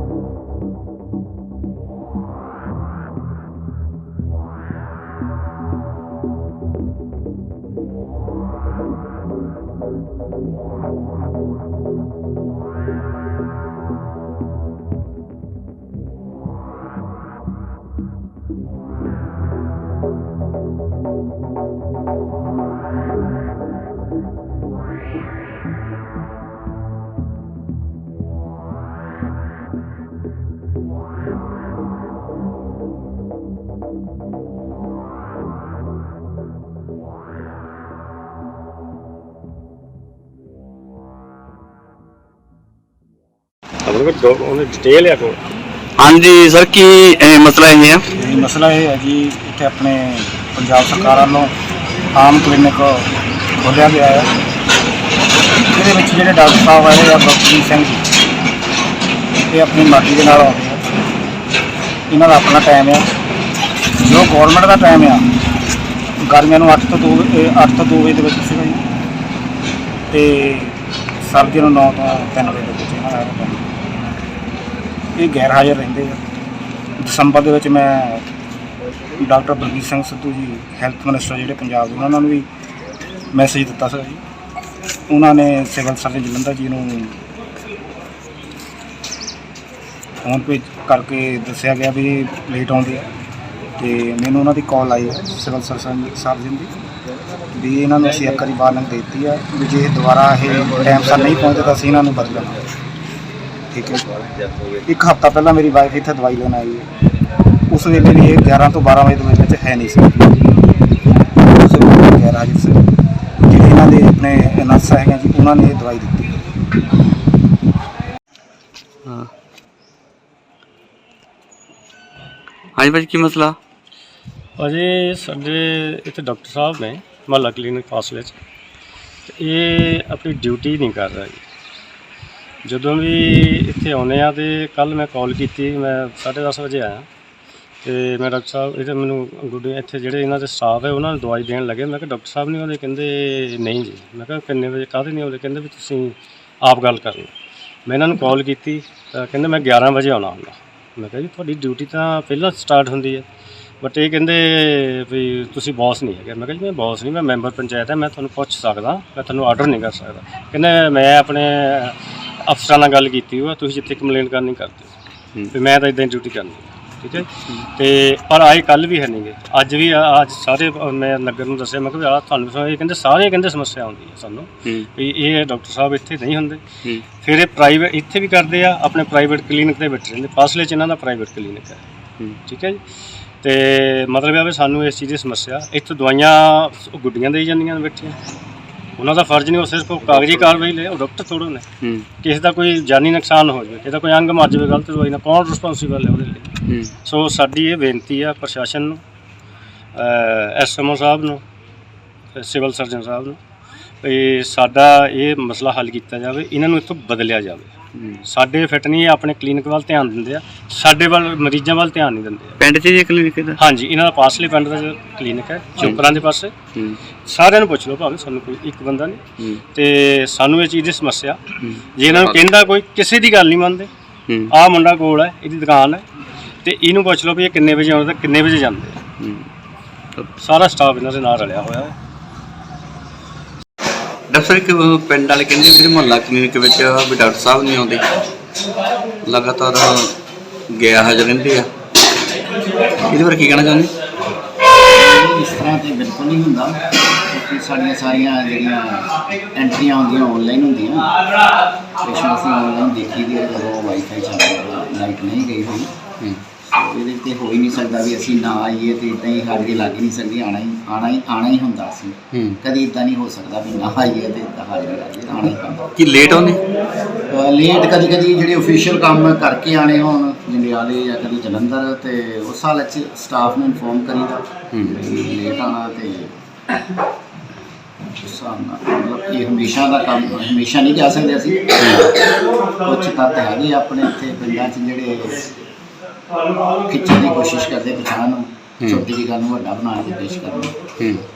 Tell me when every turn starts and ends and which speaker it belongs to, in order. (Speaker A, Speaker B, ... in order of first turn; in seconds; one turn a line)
Speaker A: 43.9-45.4
Speaker B: 46.0-48.1
Speaker C: 48.1-51.5
Speaker C: 52.1-53.1
Speaker C: 53.6-54.3
Speaker C: 55.7-58.0
Speaker C: 59.5-60.8
Speaker C: 62.1-63.1
Speaker C: 64.0-65.2
Speaker C: 66.2-68.8
Speaker C: 70.1-73.7
Speaker C: 75.2-76.2
Speaker C: 77.0-78.2
Speaker C: 79.2-82.5
Speaker C: 83.3-84.2
Speaker C: 85.1-87.2
Speaker C: 90.2-93.1
Speaker C: 93.8-96.7
Speaker C: 97.5-102.6
Speaker C: 103.7-104.1
Speaker C: 104.8-106.9
Speaker C: 107.7-110.2
Speaker C: 111.4-112.8
Speaker C: 113.5-116.3
Speaker B: 119.0-119.3
Speaker B: 122.8-123.6
Speaker A: 124.6-128.3
Speaker A: 129.3-131.4
Speaker A: 132.7-137.1
Speaker A: 137.8-147.3
Speaker A: 147.9-153.3
Speaker A: 153.8-164.9
Speaker A: 165.5-176.6
Speaker B: 167.3-167.7
Speaker A: 177.2-181.8
Speaker A: 182.5-182.8
Speaker A: 183.4-188.2
Speaker A: 189.0-191.7
Speaker A: 192.2-196.5
Speaker A: 197.1-199.0
Speaker A: 199.9-201.4
Speaker A: 202.3-203.4
Speaker A: 204.0-207.7
Speaker B: 208.0-208.2
Speaker A: 208.3-212.6
Speaker B: 212.6-213.6
Speaker A: 213.6-216.5
Speaker A: 217.2-221.4
Speaker B: 221.6-222.4
Speaker A: 221.9-223.9
Speaker A: 224.5-226.0
Speaker A: 226.6-229.0
Speaker B: 229.2-229.5
Speaker A: 230.4-232.0
Speaker B: 234.3-238.1
Speaker B: 239.2-240.2
Speaker B: 240.7-241.7
Speaker B: 243.1-243.9
Speaker D: 244.8-251.2
Speaker D: 252.0-255.9
Speaker D: 256.6-265.9
Speaker B: 262.3-262.6
Speaker B: 266.0-266.6
Speaker D: 267.3-276.3
Speaker B: 274.7-275.0
Speaker D: 278.2-285.5
Speaker B: 281.8-282.1
Speaker D: 286.9-290.8
Speaker B: 291.0-291.2